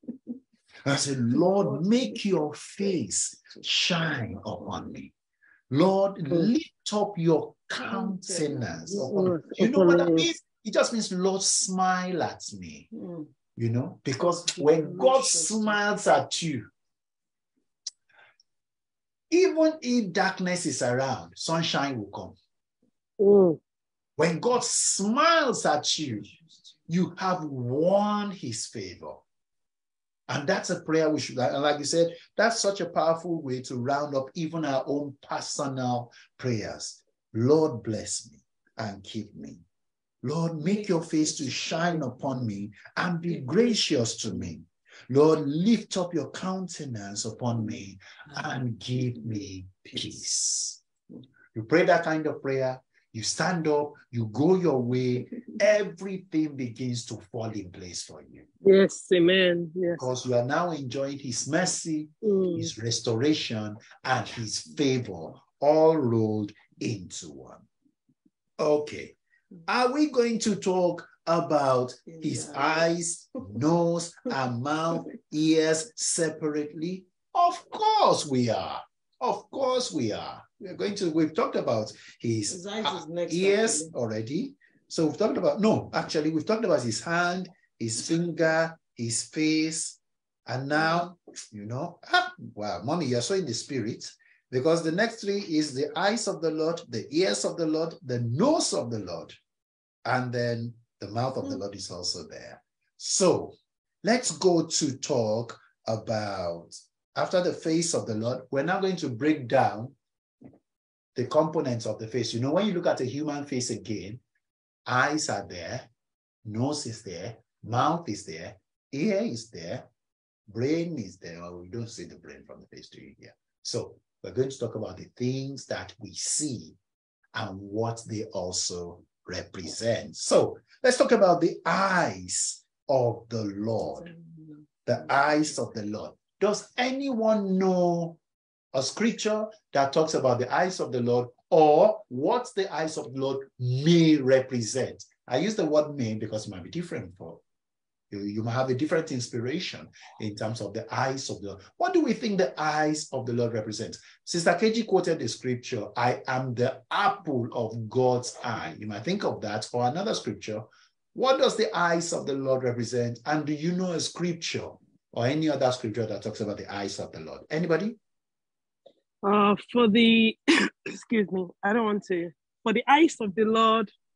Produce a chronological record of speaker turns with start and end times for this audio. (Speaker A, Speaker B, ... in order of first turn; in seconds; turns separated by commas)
Speaker A: 0.8-5.1, Speaker B: 1.6-2.1, Speaker B: 3.5-4.9, Speaker A: 5.7-12.9, Speaker B: 7.8-9.0, Speaker C: 8.9-10.3, Speaker B: 12.9-13.3, Speaker A: 13.6-16.7, Speaker B: 14.2-15.8, Speaker A: 19.3-22.3, Speaker C: 23.2-23.6, Speaker A: 24.2-26.3, Speaker B: 26.1-26.5, Speaker A: 26.9-29.2, Speaker A: 30.3-39.6, Speaker A: 40.2-50.8, Speaker B: 40.6-42.3, Speaker B: 43.3-43.8, Speaker A: 51.5-58.5, Speaker C: 58.6-60.0, Speaker A: 60.0-67.6, Speaker C: 62.2-62.7, Speaker A: 68.6-69.1, Speaker A: 69.7-99.4, Speaker B: 72.1-72.9, Speaker B: 82.5-83.9, Speaker B: 90.8-91.0, Speaker A: 100.0-109.9, Speaker A: 111.2-114.2, Speaker A: 114.9-115.8, Speaker A: 116.4-119.8, Speaker A: 120.5-126.8, Speaker A: 127.3-134.1, Speaker B: 133.8-135.4, Speaker A: 134.8-138.2, Speaker A: 138.7-147.4, Speaker A: 148.1-168.0, Speaker C: 169.2-173.9